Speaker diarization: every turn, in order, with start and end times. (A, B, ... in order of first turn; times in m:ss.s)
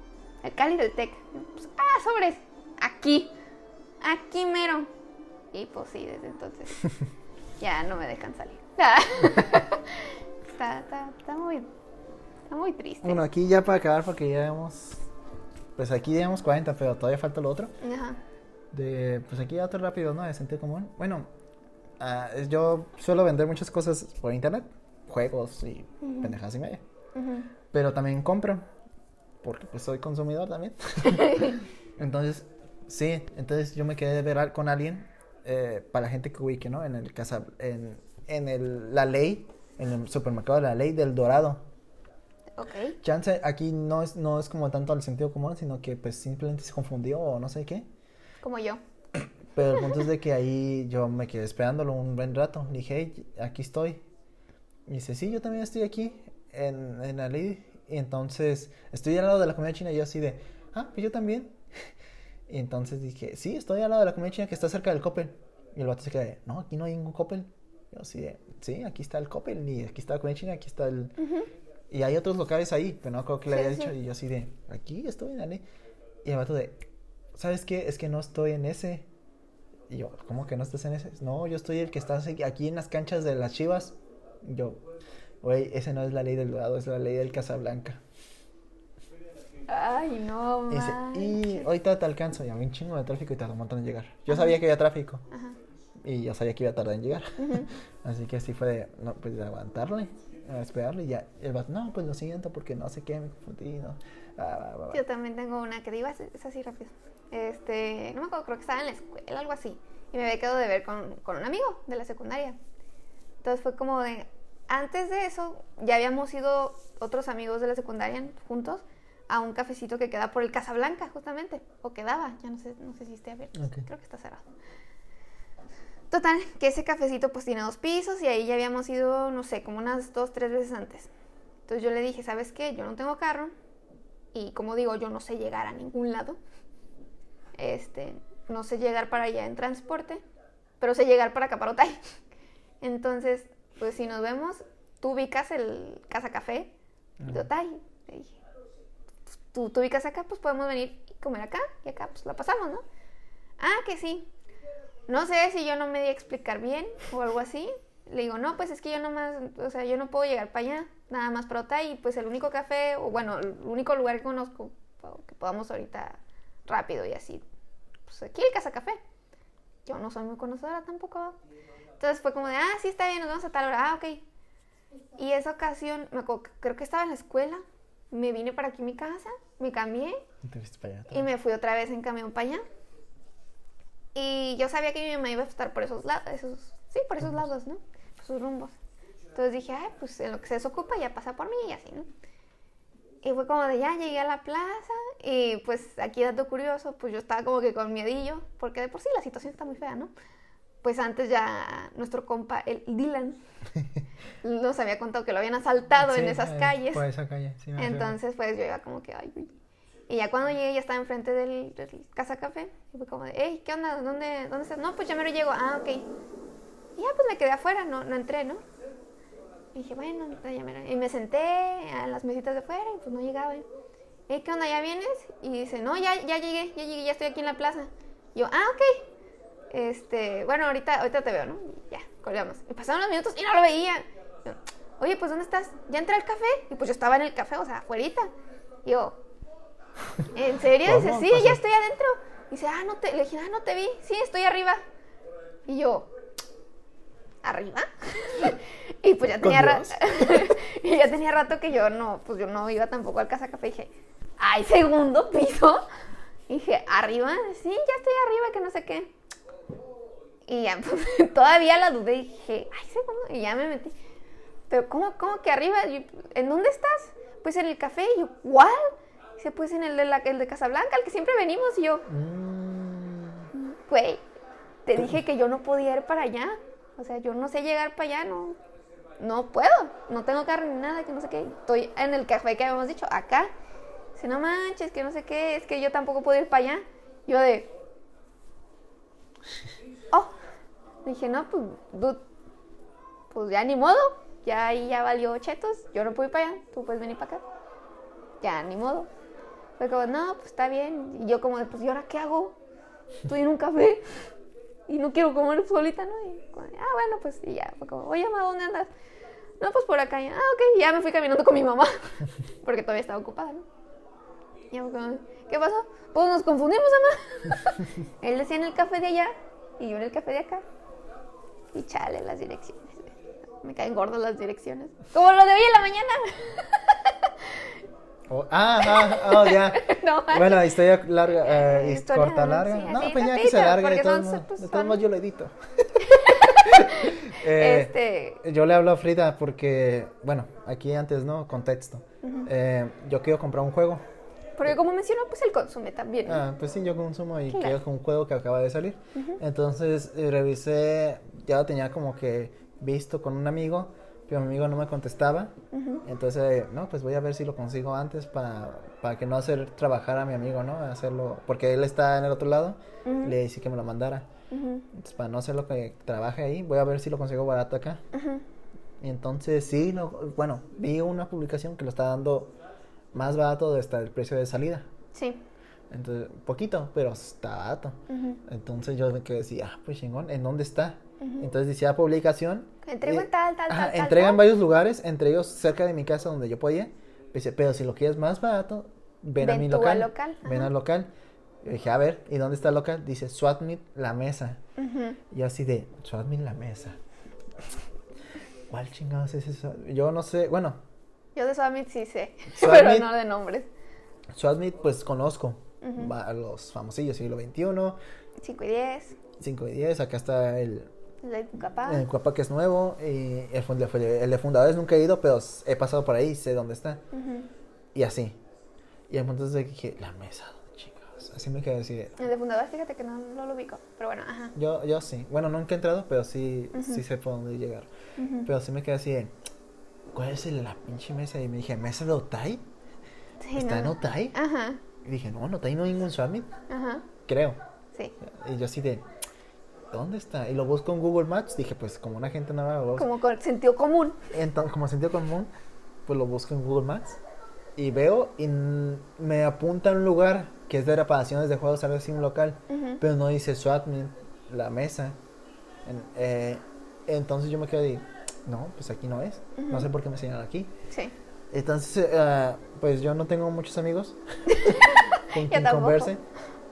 0:00.4-0:03.3 A
0:04.0-0:04.9 A
0:05.5-0:06.8 A
0:07.6-0:11.7 A
0:12.5-0:13.2 A
0:13.0-0:15.0 B
0:15.8-0:17.7 B
0:17.8-0:18.2 A
0:18.7-0:21.3 B
0:22.0-0:26.8 B
0:26.0-0:26.3 A
0:27.1-0:27.5 A
0:27.7-0:28.6 B
0:29.4-0:41.6 B
0:31.1-0:31.5 A
0:42.5-0:43.0 A
0:43.0-0:47.8 B
0:48.4-0:48.8 A
0:49.5-0:54.0 B
0:54.9-1:01.6 B
1:02.5-1:11.2 B
1:11.2-1:11.5 A
1:11.9-1:15.6 B
1:13.5-1:13.9 A
1:16.2-1:19.1 B
1:19.9-1:24.8 B
1:25.4-1:28.0 B
1:29.7-1:31.7 A
1:30.7-1:35.2 B
1:35.3-1:35.6 A
1:36.0-1:45.0 B
1:37.4-1:37.7 A
1:44.9-1:52.6 A
1:53.4-2:04.4 A
2:03.5-2:03.8 B
2:06.1-2:11.1 A
2:11.7-2:13.5 A
2:14.3-2:16.4 A
2:17.6-2:20.2 A
2:20.8-2:22.0 A
2:22.8-2:26.7 A
2:27.2-2:27.5 B
2:27.3-2:28.4 A
2:29.3-2:32.8 A
2:33.6-2:34.3 A
2:35.1-2:47.4 A
2:48.1-2:49.0 A
2:49.8-2:51.4 A
2:52.0-2:54.2 A
2:55.2-3:00.2 A
3:00.4-3:01.3 B
3:01.1-3:02.6 A
3:04.1-3:08.7 A
3:07.2-3:07.5 B
3:09.3-3:12.1 A
3:13.2-3:20.1 A
3:20.8-3:23.4 A
3:24.4-3:27.0 A
3:26.0-3:28.2 B
3:27.8-3:29.5 A
3:30.1-3:36.1 A
3:37.0-3:38.6 A
3:39.7-3:43.6 A
3:44.3-3:49.0 A
3:49.7-3:58.3 A
3:58.8-3:59.2 A
4:00.3-4:04.8 A
4:00.8-4:01.6 B
4:05.7-4:06.1 A
4:07.4-4:15.8 A
4:09.4-4:10.5 B
4:16.5-4:19.1 A
4:20.4-4:23.9 A
4:24.7-4:32.0 A
4:32.1-4:33.5 B
4:33.5-4:34.2 A
4:34.8-4:38.6 A
4:39.2-4:43.5 A
4:44.1-4:47.7 A
4:51.0-4:52.2 A
4:53.3-4:57.4 A
4:58.4-4:59.1 A
4:59.8-5:02.6 A
5:03.3-5:04.0 A
5:04.9-5:08.9 A
5:09.6-5:13.6 A
5:14.7-5:20.6 A
5:21.7-5:27.6 A
5:28.3-5:44.0 B
5:28.8-5:30.8 A
5:31.3-5:35.0 A
5:36.1-5:38.4 A
5:42.2-5:42.5 A
5:44.6-5:46.4 A
5:46.2-6:04.3 B
5:47.5-5:47.8 A
5:55.7-5:56.0 A
6:03.0-6:03.3 A
6:04.5-6:04.8 A
6:04.9-6:08.0 B
6:08.1-6:08.4 A
6:09.0-6:12.5 B
6:13.1-6:14.9 B
6:15.1-6:15.4 A
6:15.9-6:34.6 B
6:18.1-6:18.4 A
6:21.2-6:21.5 A
6:22.8-6:24.4 A
6:29.4-6:30.7 A
6:34.8-6:35.2 A
6:35.3-6:37.0 B
6:38.7-6:40.8 B
6:41.3-6:43.7 A
6:42.5-6:43.1 B
6:44.3-6:48.0 B
6:45.8-6:46.1 A
6:48.4-6:49.2 A
6:49.4-6:50.9 B
6:51.2-6:52.0 A
6:51.8-6:57.0 B
6:57.1-6:57.5 A
6:57.9-6:58.4 B
6:59.1-7:02.2 B
7:02.2-7:04.5 A
7:04.5-7:07.9 B
7:06.7-7:07.0 A
7:08.2-7:08.5 A
7:08.4-7:09.3 B
7:10.1-7:12.6 B
7:13.4-7:14.8 A
7:13.6-7:14.4 B
7:15.0-7:16.5 B
7:16.7-7:17.0 A
7:17.2-7:17.6 B
7:18.2-7:19.0 B
7:19.9-7:23.1 B
7:23.0-7:24.2 A
7:24.3-7:25.5 B
7:26.0-7:27.2 B
7:27.8-7:35.2 B
7:32.7-7:33.0 A
7:35.8-7:40.7 B
7:39.6-7:39.9 A
7:41.5-7:46.2 B
7:44.5-7:46.1 A